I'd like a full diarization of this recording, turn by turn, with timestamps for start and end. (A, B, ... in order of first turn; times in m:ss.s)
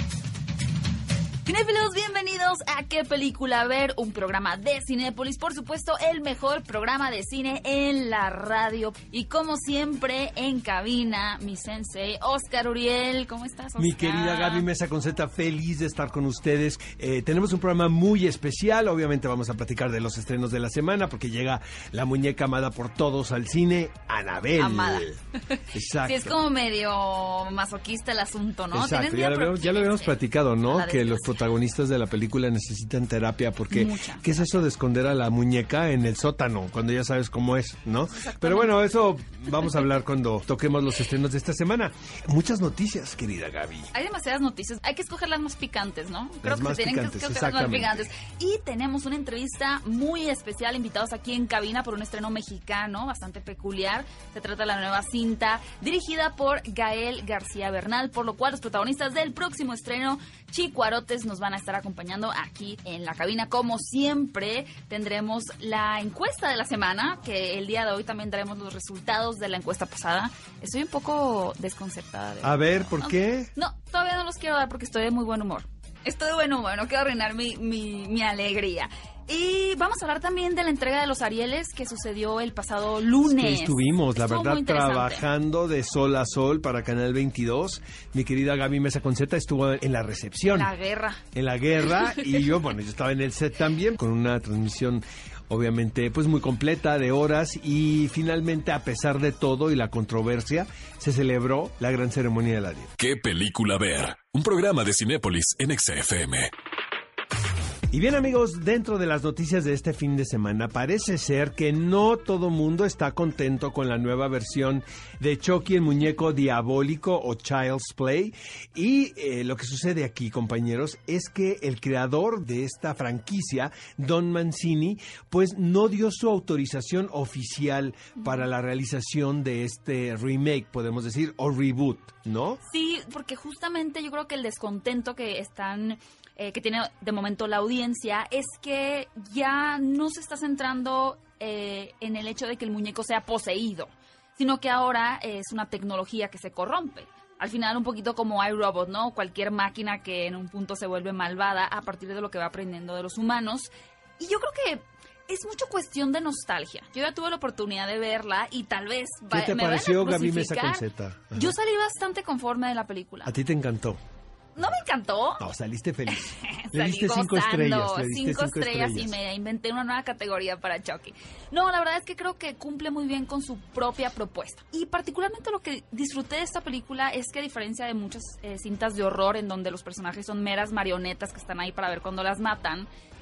0:01.4-0:14.7 A
0:13.8-0:25.2 B
0:24.6-0:31.3 A
0:25.7-0:26.4 B
0:28.7-0:43.9 B
0:33.7-0:34.6 A
0:38.1-0:38.8 A
0:43.9-1:25.2 A
0:46.4-0:48.1 B
1:12.4-1:13.5 B
1:23.2-1:30.7 B
1:30.5-1:31.2 A
1:31.3-1:43.0 B
1:32.0-1:32.4 A
1:43.0-1:46.5 C
1:47.9-2:12.6 B
2:08.2-2:08.4 A
2:12.6-2:43.4 A
2:39.3-2:41.5 B
2:43.2-2:44.0 B
2:44.6-2:45.4 A
2:45.4-2:49.2 B
2:46.2-3:02.9 A